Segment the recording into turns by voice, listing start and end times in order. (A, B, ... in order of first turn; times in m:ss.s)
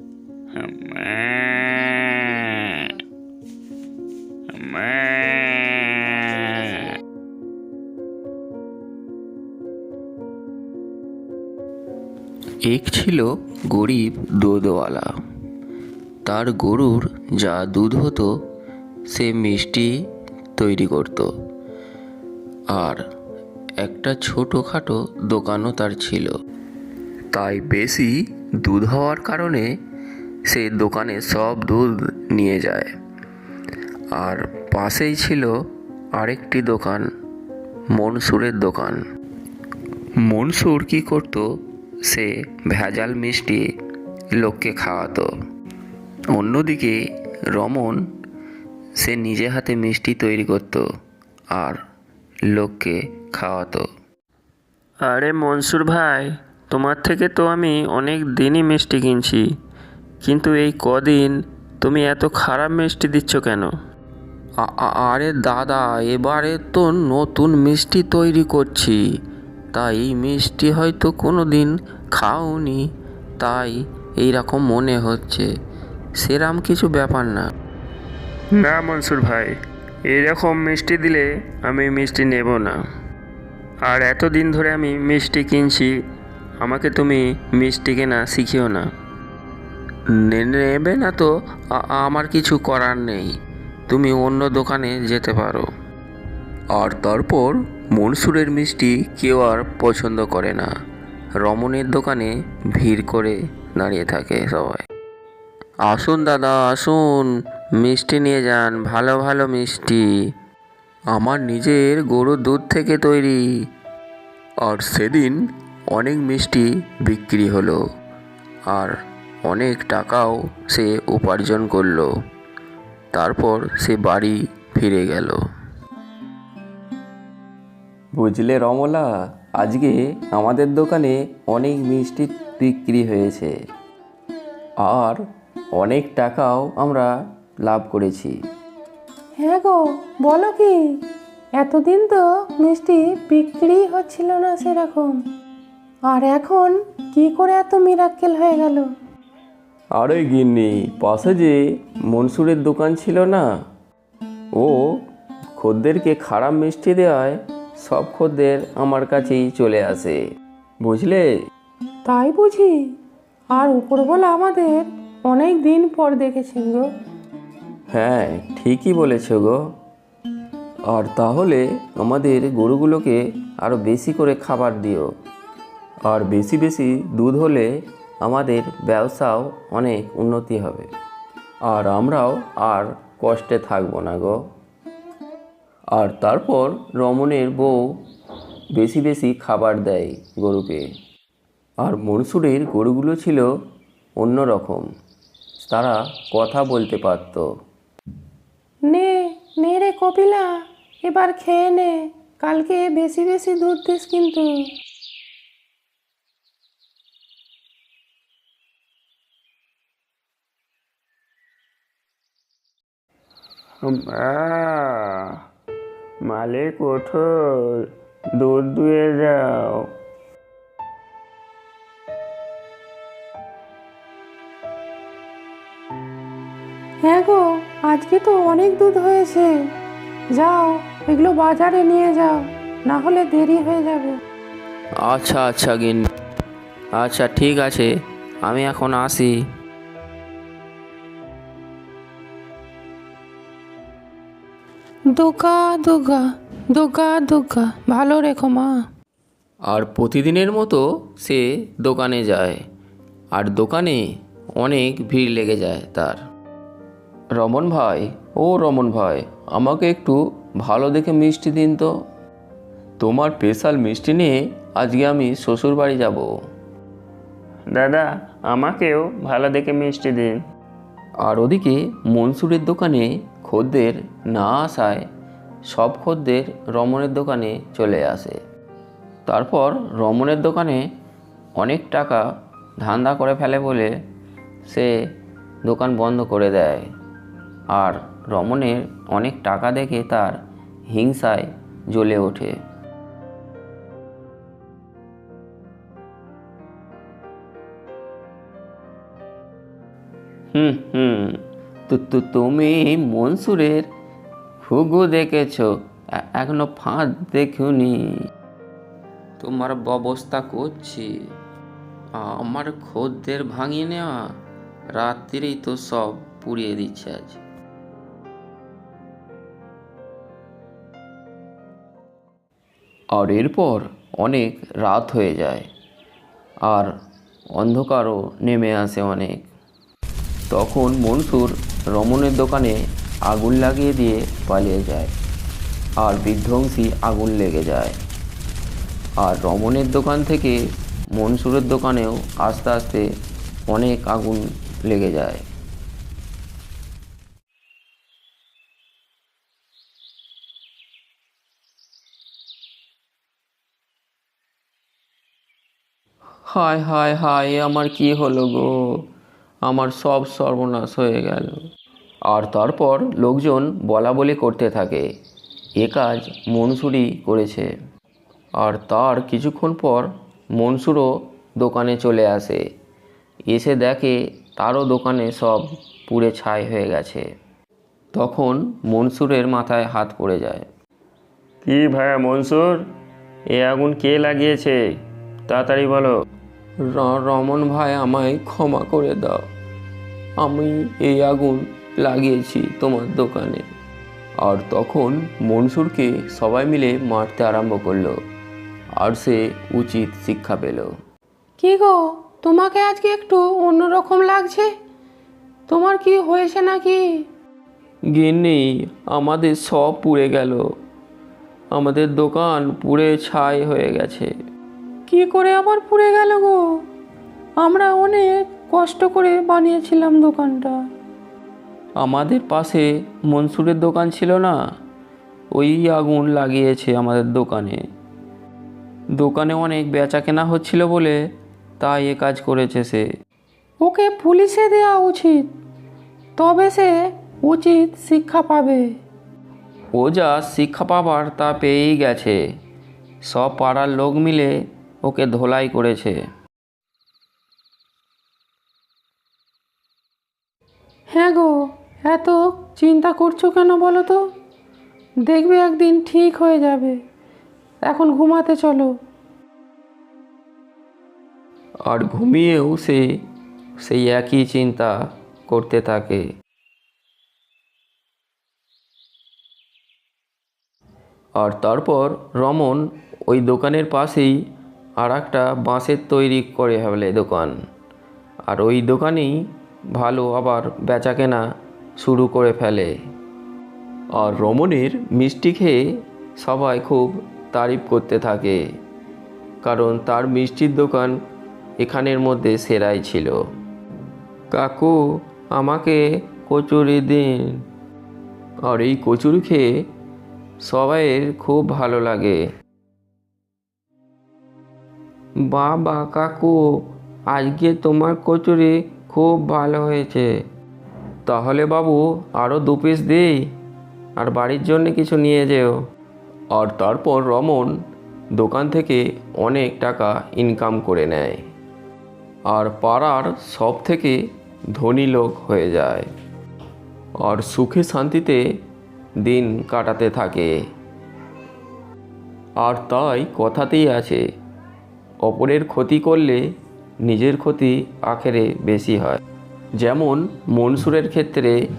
0:00.5-0:02.9 A
0:04.5-0:06.9 A
0:12.6-0:15.1 B
0:16.2-0:18.3 B
0:19.1-0:20.0 B
0:20.6-0:21.3 B
0:22.7-0:23.0 B
0:23.8-0:26.3 B
0:27.3-0:29.7 B
0:30.5-0:32.9 B
0:34.1-0:35.5 B
0:36.2-0:37.1 B
0:37.9-0:39.0 B
0:40.2-0:41.5 B
0:42.1-0:43.7 B
0:44.4-0:45.3 B
0:46.3-0:47.0 B
0:47.5-0:48.0 B
0:49.0-0:50.9 B
0:51.5-0:51.8 B
0:52.5-0:53.9 B
0:55.0-0:59.4 A
1:00.2-1:03.7 A
1:04.6-1:09.0 B
1:09.7-1:12.9 B
1:13.4-1:15.5 B
1:16.2-1:17.5 B
1:18.5-1:19.5 A
1:20.1-1:22.8 A
1:23.8-1:25.9 A
1:26.6-1:28.9 A
1:30.1-1:33.3 B
1:33.9-1:35.7 B
1:36.7-1:40.7 B
1:41.4-1:44.8 B
1:45.8-1:50.1 B
1:51.1-1:53.4 B
1:54.6-1:57.8 B
1:58.7-2:02.1 B
2:03.1-2:05.4 B
2:08.2-2:13.6 B
2:14.8-2:15.2 B
2:15.7-2:18.4 B
2:19.4-2:20.8 C
2:21.6-2:25.2 C
2:26.1-2:28.9 C
2:30.0-2:33.5 B
2:34.5-2:35.0 B
2:35.6-2:40.2 B
2:40.8-2:41.3 B
2:42.1-2:42.7 C
2:43.5-2:46.9 C
2:47.9-2:49.6 B
2:50.9-2:55.1 B
2:56.0-2:57.7 B
2:58.2-3:00.9 B
3:01.7-3:04.4 B
3:05.9-3:08.0 B
3:08.7-3:10.9 B
3:11.8-3:13.5 B
3:14.2-3:14.9 B
3:15.6-3:17.5 B
3:18.9-3:20.5 C
3:21.0-3:24.5 C
3:33.8-3:35.4 A
3:36.2-3:37.9 A
3:38.4-3:39.9 A
3:47.0-3:49.5 C
3:50.3-3:54.2 C
3:55.0-3:56.1 B
3:57.0-3:59.4 B
4:05.1-4:08.8 C
4:09.7-4:12.6 B
4:13.3-4:14.0 B
4:14.6-4:16.2 B
4:17.4-4:21.9 B
4:23.0-4:26.3 B
4:27.7-4:30.4 A
4:31.2-4:35.0 B
4:35.6-4:38.4 B
4:39.3-4:40.8 B
4:41.6-4:42.2 B
4:42.8-4:43.9 B
4:44.6-4:44.9 B
4:45.6-4:46.9 B
4:47.7-4:52.6 B
5:00.5-5:03.9 B
5:04.6-5:08.2 B
5:09.4-5:11.3 B
5:12.2-5:14.3 B
5:14.9-5:17.4 B
5:23.1-5:25.7 B
5:26.6-5:26.9 B
5:27.6-5:29.5 B
5:30.5-5:35.1 B
5:36.0-5:38.0 B
5:39.2-5:40.6 B
5:41.1-5:43.1 B
5:43.7-5:45.5 B
5:56.5-5:59.0 B
5:59.6-6:01.6 B
6:02.3-6:05.1 B
6:05.8-6:07.7 B
6:08.6-6:12.6 B
6:13.5-6:17.3 B
6:18.1-6:20.7 B
6:21.6-6:22.9 A
6:23.5-6:24.8 A
6:25.5-6:26.1 A
6:26.9-6:29.4 B
6:30.4-6:33.6 B
6:34.4-6:38.2 B
6:39.0-6:40.9 B
6:41.6-6:44.7 C
6:45.7-6:47.0 C
6:48.1-6:50.7 B
6:51.7-6:54.3 B
6:55.1-6:56.6 C
6:57.6-7:00.8 C
7:02.0-7:04.6 B
7:05.5-7:07.8 B
7:09.2-7:11.2 B
7:11.8-7:13.1 B
7:13.8-7:15.4 C
7:16.4-7:18.8 C
7:19.9-7:22.4 B
7:23.2-7:26.2 B
7:31.1-7:31.5 C
7:32.1-7:34.2 C
7:35.3-7:37.0 C
7:37.8-7:38.9 C
7:41.9-7:43.1 B
7:43.8-7:46.3 B
7:51.4-7:54.4 B
7:55.0-7:57.6 B
7:58.5-8:01.4 B
8:02.0-8:03.0 B
8:04.2-8:08.6 B
8:09.6-8:11.2 B
8:11.8-8:13.4 B
8:14.5-8:17.6 B
8:18.6-8:19.7 B
8:20.6-8:22.5 B
8:25.4-8:30.4 B
8:31.2-8:33.5 B
8:34.2-8:35.8 B
8:36.5-8:37.8 B
8:38.4-8:41.4 B
8:42.5-8:44.2 B
8:44.7-8:46.1 B
8:47.2-8:48.4 B
8:49.2-8:50.6 B
8:52.6-8:54.2 B
8:55.2-8:56.5 B
8:57.0-8:59.2 B
8:59.8-9:01.6 B